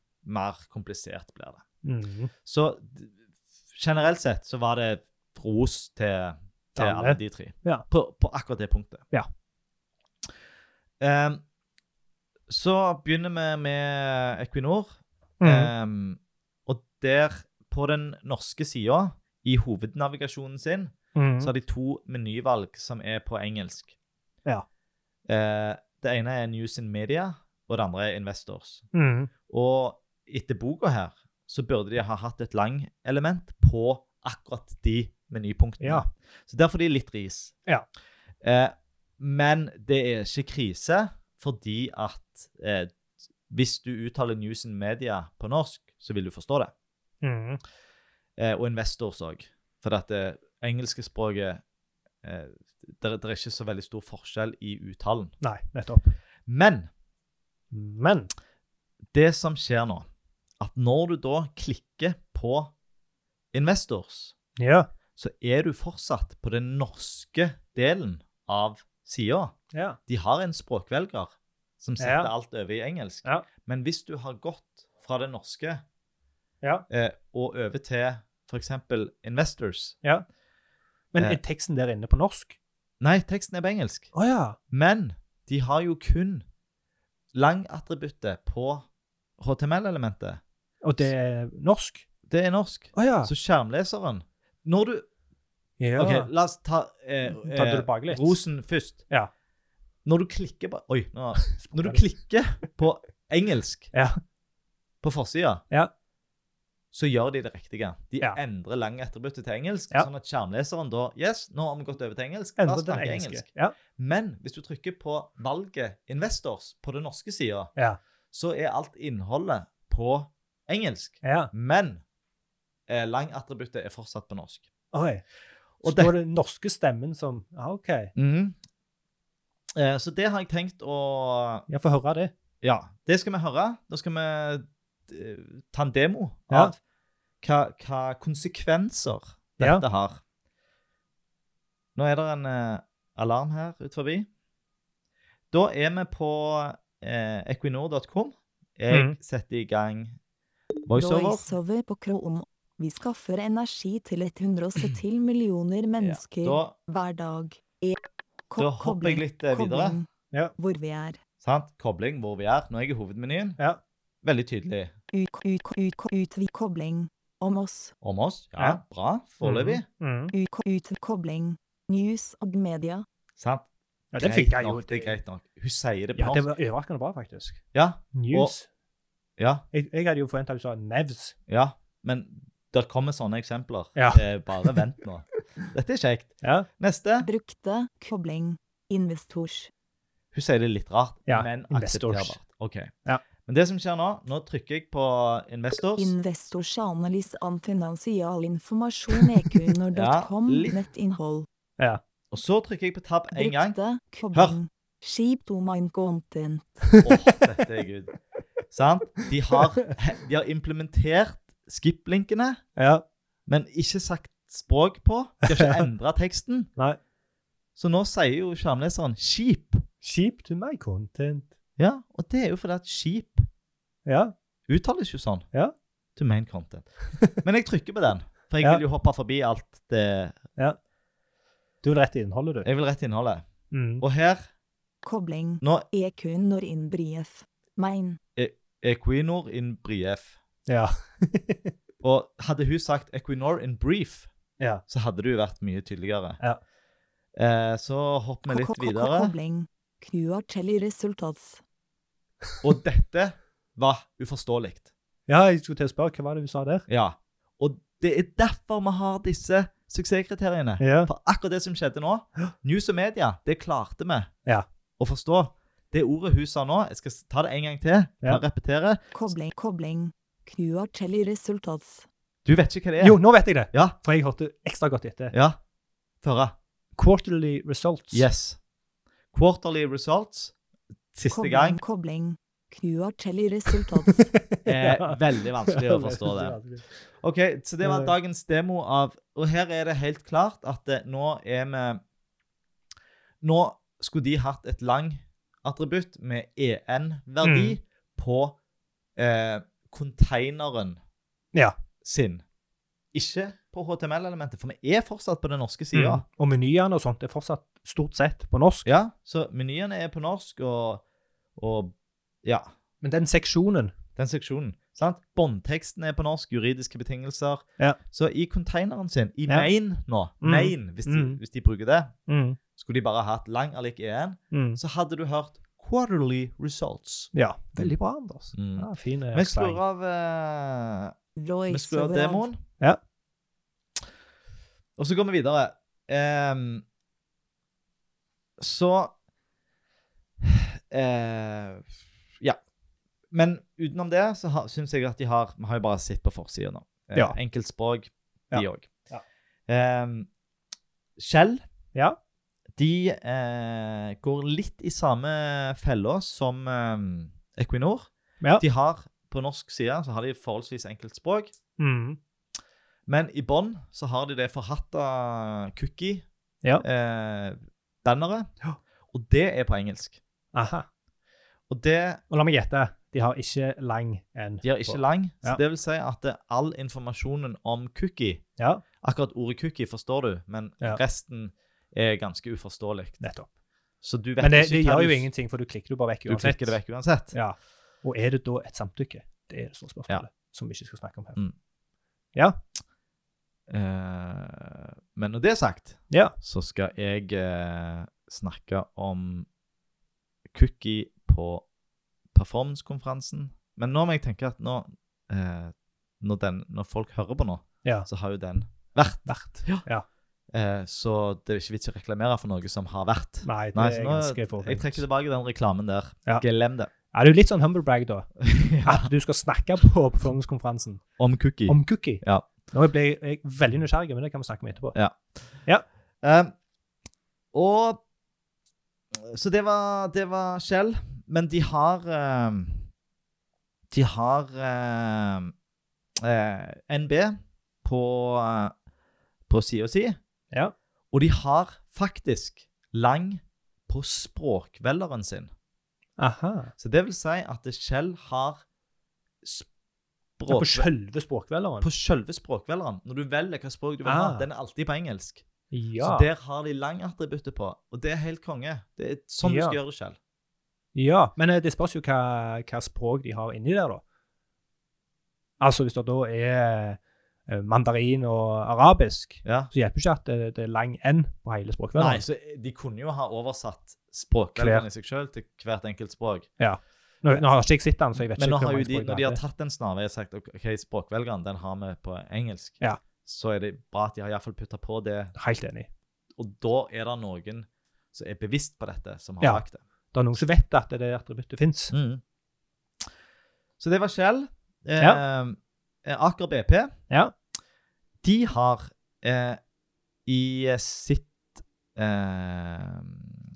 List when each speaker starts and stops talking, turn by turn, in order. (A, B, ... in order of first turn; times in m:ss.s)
0:00.2-0:01.6 A
0:01.8-0:02.3 B
0:02.4-0:03.1 A
0:03.7-0:09.1 A
0:06.8-0:07.9 B
0:11.0-0:11.4 A
0:12.5-0:23.9 A
0:15.4-0:15.7 B
0:21.2-0:21.5 B
0:25.3-0:28.9 A
0:28.9-0:29.3 B
0:29.5-0:37.6 A
0:35.8-0:36.1 B
0:38.4-0:42.9 A
0:43.5-0:46.7 A
0:47.2-0:47.6 B
0:48.4-0:51.6 A
0:52.2-0:55.4 A
0:55.4-0:56.2 B
0:56.5-0:56.9 A
0:57.7-0:58.3 B
0:59.1-1:00.1 A
1:00.6-1:02.7 A
1:03.5-1:04.4 A
1:04.6-1:04.9 B
1:05.2-1:09.6 A
1:09.7-1:10.0 B
1:10.1-1:15.8 A
1:12.0-1:12.3 B
1:16.9-1:20.0 A
1:21.1-1:22.6 B
1:23.0-1:24.1 A
1:24.1-1:24.6 B
1:24.7-1:26.4 A
1:27.3-1:28.9 A
1:29.4-1:30.4 A
1:30.8-1:32.0 B
1:32.3-1:35.1 A
1:33.0-1:33.3 B
1:35.8-1:36.3 B
1:36.0-1:39.0 A
1:37.3-1:38.4 B
1:40.0-1:43.9 A
1:41.6-1:42.1 B
1:43.9-1:44.2 B
1:45.0-1:45.6 A
1:46.9-1:57.7 A
1:52.6-1:53.8 B
1:58.3-2:02.0 A
2:01.2-2:01.5 B
2:02.9-2:04.7 A
2:04.9-2:05.2 B
2:05.8-2:06.2 A
2:05.8-2:08.1 B
2:08.2-2:08.6 A
2:09.8-2:11.7 A
2:11.7-2:12.3 B
2:12.6-2:16.8 A
2:16.5-2:16.8 B
2:17.4-2:20.2 A
2:19.6-2:19.8 B
2:22.0-2:24.3 A
2:25.5-2:30.2 A
2:28.9-2:29.2 B
2:30.9-2:31.5 A
2:31.0-2:41.2 C
2:36.0-2:36.8 A
2:38.6-2:40.0 A
2:41.4-2:43.6 A
2:44.2-2:44.9 A
2:45.1-2:47.9 C
2:48.0-2:49.8 A
2:49.4-2:50.3 B
2:50.3-2:53.0 C
2:53.4-2:53.7 A
2:54.1-2:55.2 B
2:54.2-2:56.5 A
2:56.2-2:57.6 B
2:57.7-2:58.6 A
2:58.1-2:58.7 B
2:59.4-2:59.6 A
2:59.7-3:01.4 B
3:01.5-3:07.3 A
3:04.0-3:04.8 B
3:06.4-3:06.7 B
3:07.2-3:09.7 C
3:10.3-3:12.9 A
3:11.3-3:12.4 B
3:13.4-3:16.1 A
3:16.0-3:21.5 C
3:19.9-3:20.8 A
3:22.3-3:23.8 A
3:23.3-3:27.0 C
3:27.0-3:28.1 A
3:28.7-3:32.6 A
3:32.8-3:33.0 B
3:33.5-3:36.7 A
3:35.5-3:35.9 B
3:37.8-3:39.8 A
3:40.0-3:41.5 B
3:41.8-3:43.5 A
3:44.1-3:44.3 B
3:44.7-3:45.5 A
3:46.2-3:50.4 A
3:51.8-3:52.7 B
3:52.6-3:53.5 A
3:53.7-3:54.0 B
3:54.0-3:54.4 A
3:55.0-3:58.2 C
3:58.4-4:00.4 A
4:00.7-4:01.7 B
4:02.0-4:04.3 A
4:04.9-4:06.4 A
4:07.4-4:09.3 A
4:08.5-4:11.6 C
4:12.6-4:14.9 A
4:15.3-4:16.8 B
4:16.9-4:24.3 A
4:20.8-4:21.1 B
4:25.0-4:29.0 A
4:29.1-4:32.1 C
4:32.4-4:34.0 A
4:33.0-4:35.3 B
4:35.3-4:35.6 A
4:36.2-4:36.6 A
4:37.0-4:38.3 B
4:38.1-4:38.6 A
4:39.3-4:40.6 A
4:41.1-4:41.8 A
4:41.3-4:44.3 C
4:43.7-4:46.8 B
4:44.6-4:46.6 A
4:47.2-4:52.0 A
4:47.8-4:48.1 B
4:53.4-4:58.6 A
4:57.4-4:57.8 B
4:59.2-5:01.0 A
5:02.0-5:02.4 A
5:03.1-5:06.2 A
5:05.9-5:08.9 B
5:08.8-5:11.0 A
5:11.6-5:12.7 A
5:13.0-5:13.9 B
5:14.2-5:22.2 A
5:20.4-5:21.4 B
5:22.3-5:22.6 B
5:22.8-5:28.0 A
5:24.5-5:24.8 B
5:27.3-5:29.8 B
5:28.5-5:31.1 A
5:31.4-5:32.4 C
5:31.7-5:32.6 A
5:35.0-5:36.8 A
5:38.6-5:39.2 A
5:40.4-5:41.9 A
5:43.3-5:48.9 A
5:48.5-5:49.2 B
5:49.7-5:50.3 A
5:51.2-5:51.6 A
5:52.8-6:01.5 A
6:01.8-6:02.2 B
6:03.1-6:06.3 A
6:06.8-6:08.5 A
6:09.1-6:10.2 A
6:10.5-6:10.9 B
6:11.7-6:12.2 A
6:12.3-6:15.6 B
6:14.6-6:18.4 A
6:18.6-6:18.8 B
6:19.0-6:23.2 A
6:23.2-6:23.5 B
6:24.0-6:25.3 A
6:24.4-6:26.8 B
6:26.3-6:27.4 A
6:27.3-6:31.4 B
6:33.7-6:39.5 A
6:36.1-6:36.4 B
6:40.5-6:41.6 A
6:42.4-6:49.9 A
6:49.3-6:50.0 B
6:50.5-6:56.9 A
6:53.4-6:55.0 B
6:57.0-7:01.1 B
6:58.4-6:59.1 A
7:01.2-7:02.5 A
7:01.7-7:05.0 B
7:04.9-7:05.6 A
7:06.2-7:06.5 A
7:07.5-7:08.0 A
7:09.3-7:12.9 A
7:13.9-7:15.5 A
7:16.2-7:18.7 A
7:19.5-7:20.2 A
7:21.1-7:25.5 A
7:26.2-7:26.7 B
7:26.8-7:28.6 A
7:29.4-7:29.7 A
7:30.4-7:30.9 A
7:30.5-7:31.9 B
7:31.8-7:35.4 A
7:34.0-7:34.5 B
7:35.7-7:36.3 B
7:36.0-7:40.2 A
7:39.4-7:39.8 B
7:41.0-7:44.0 B
7:45.6-7:52.2 B
7:49.4-7:49.7 A
7:52.0-7:56.5 A
7:54.6-7:54.9 B
7:56.6-7:59.4 B
7:58.4-8:05.4 A
8:05.4-8:05.9 B
8:06.4-8:09.8 A
8:09.4-8:11.9 B
8:11.9-8:12.2 A
8:13.8-8:17.0 A
8:18.2-8:19.6 A
8:20.3-8:21.4 A
8:22.0-8:23.4 A